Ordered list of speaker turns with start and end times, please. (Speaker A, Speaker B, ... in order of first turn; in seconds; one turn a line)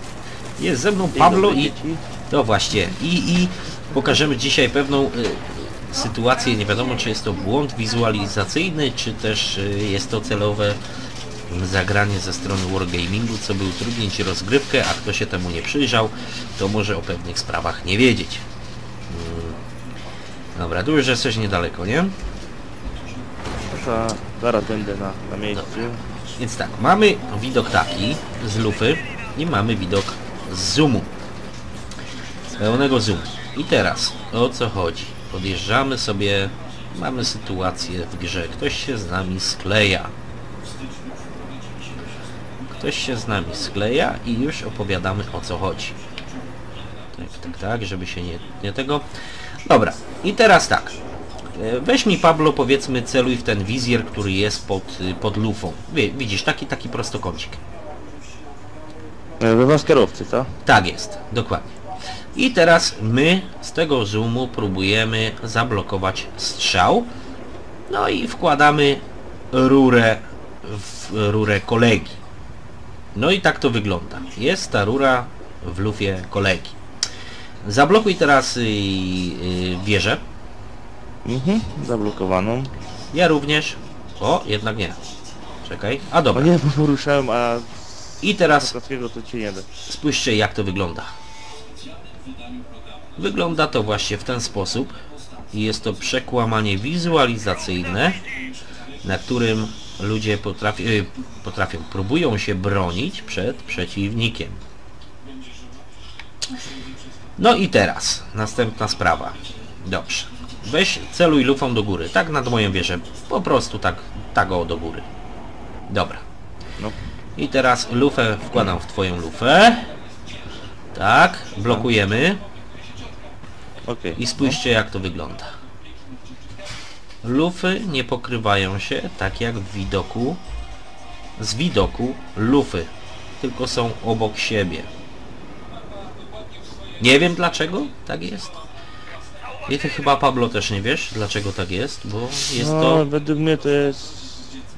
Speaker A: 0.6-1.7
Speaker B: 1.1-2.0
Speaker A: 2.3-10.8
Speaker A: 11.5-18.4
Speaker A: 19.1-19.6
Speaker A: 20.6-22.1
Speaker B: 23.7-26.0
Speaker A: 25.6-25.9
Speaker A: 26.4-31.1
Speaker A: 32.5-40.1
Speaker A: 42.7-46.0
Speaker A: 47.1-51.0
Speaker A: 51.5-57.6
Speaker B: 59.4-60.5
Speaker A: 60.6-61.7
Speaker A: 62.3-67.1
Speaker A: 67.9-72.2
Speaker A: 73.2-76.8
Speaker A: 77.6-80.2
Speaker B: 81.2-82.7
Speaker A: 83.1-85.0
Speaker A: 85.6-86.5
Speaker B: 86.3-89.7
Speaker A: 88.2-88.8
Speaker A: 89.9-91.1
Speaker A: 93.2-95.0
Speaker A: 95.5-98.2
Speaker A: 99.0-104.6
Speaker A: 107.4-115.1
Speaker A: 115.9-116.2
Speaker A: 117.4-119.9
Speaker A: 120.9-122.4
Speaker B: 123.9-124.6
Speaker A: 124.2-125.5
Speaker A: 127.2-130.4
Speaker A: 131.4-134.9
Speaker A: 137.0-138.6
Speaker A: 139.7-143.1
Speaker B: 142.6-144.6